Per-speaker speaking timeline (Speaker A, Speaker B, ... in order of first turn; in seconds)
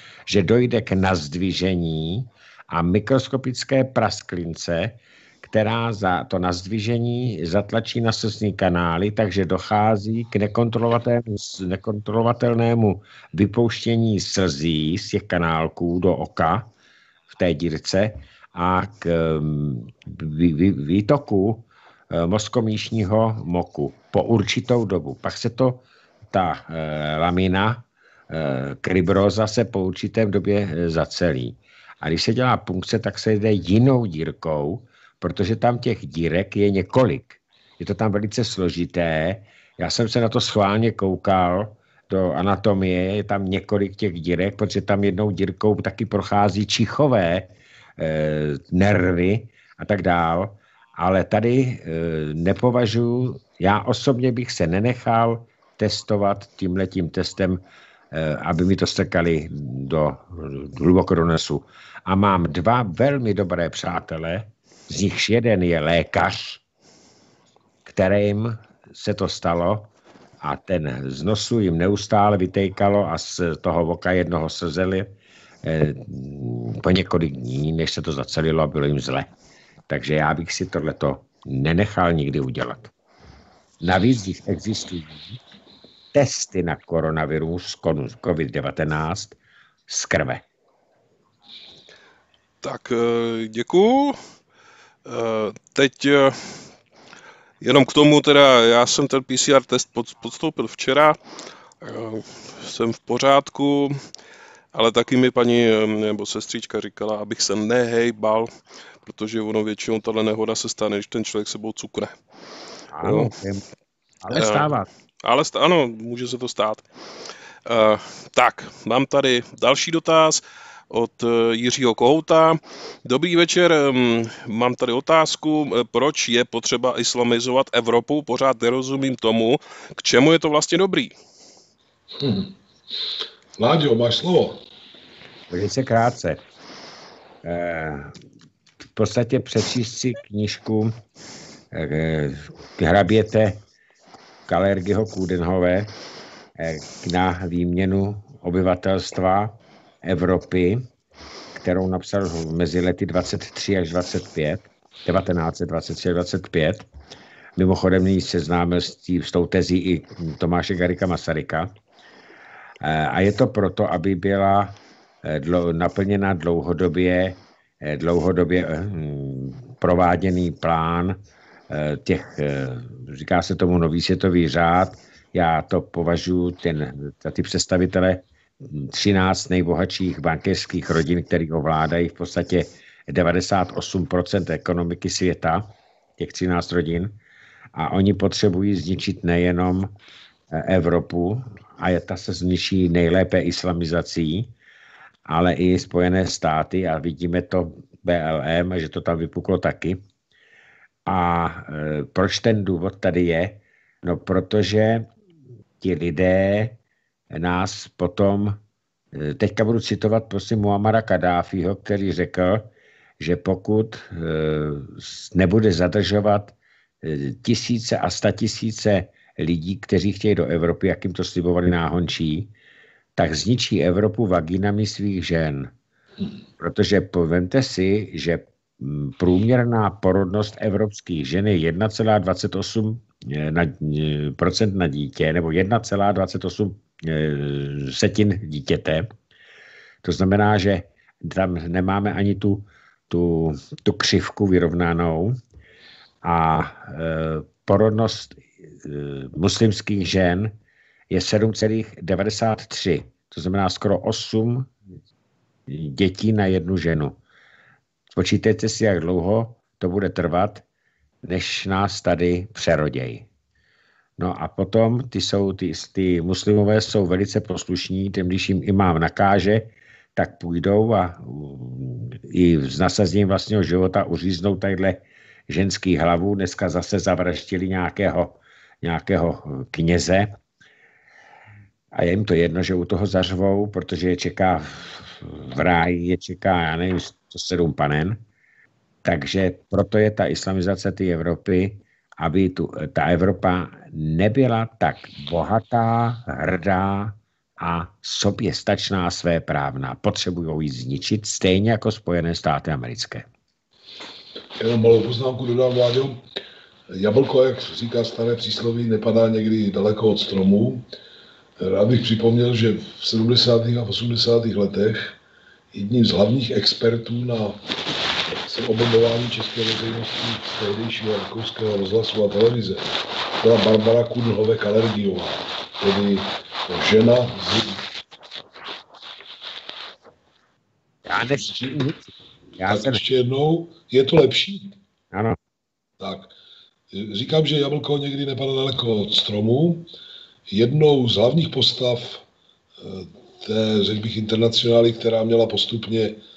Speaker A: 0.3-16.7, 17.3-57.6, 58.1-66.6, 67.8-69.9, 70.4-75.1, 75.6-79.3, 79.9-82.9, 83.8-85.4, 86.1-89.4, 89.9-90.4, 112.9-113.6, 114.2-114.9, 135.5-136.4, 137.4-138.1, 138.9-140.9, 141.7-143.6, 144.5-145.9, 146.6-150.8, 151.5-156.8, 157.6-161.7, 162.8-171.2, 171.7-187.1, 187.8-189.9, 190.5-194.5, 195.2-200.0, 201.1-205.1, 205.8-206.8, 207.3-208.6, 209.1-212.7, 213.2-222.5, 223.2-225.7, 226.6-239.1, 240.0-245.4, 246.2-250.5, 251.1-254.7, 255.7-257.2, 258.1-260.6, 261.2-263.3, 264.2-280.3, 281.9-288.2, 289.0-303.3, 331.1-332.0, 332.5-333.0, 335.1-335.4
Speaker B: 92.6-94.2, 95.0-96.3, 97.6-101.2, 101.8-104.0, 104.7-108.5, 109.0-112.2, 113.0-113.3, 114.3-114.7, 115.2-116.8, 117.7-131.1
Speaker C: 132.2-132.5, 133.6-134.6, 304.6-306.2, 306.9-310.9, 311.6-315.2, 315.7-317.7, 318.3-327.8, 331.4-331.9, 332.6-334.7, 336.0-336.3, 336.9-339.9, 340.5-342.2, 342.8-346.2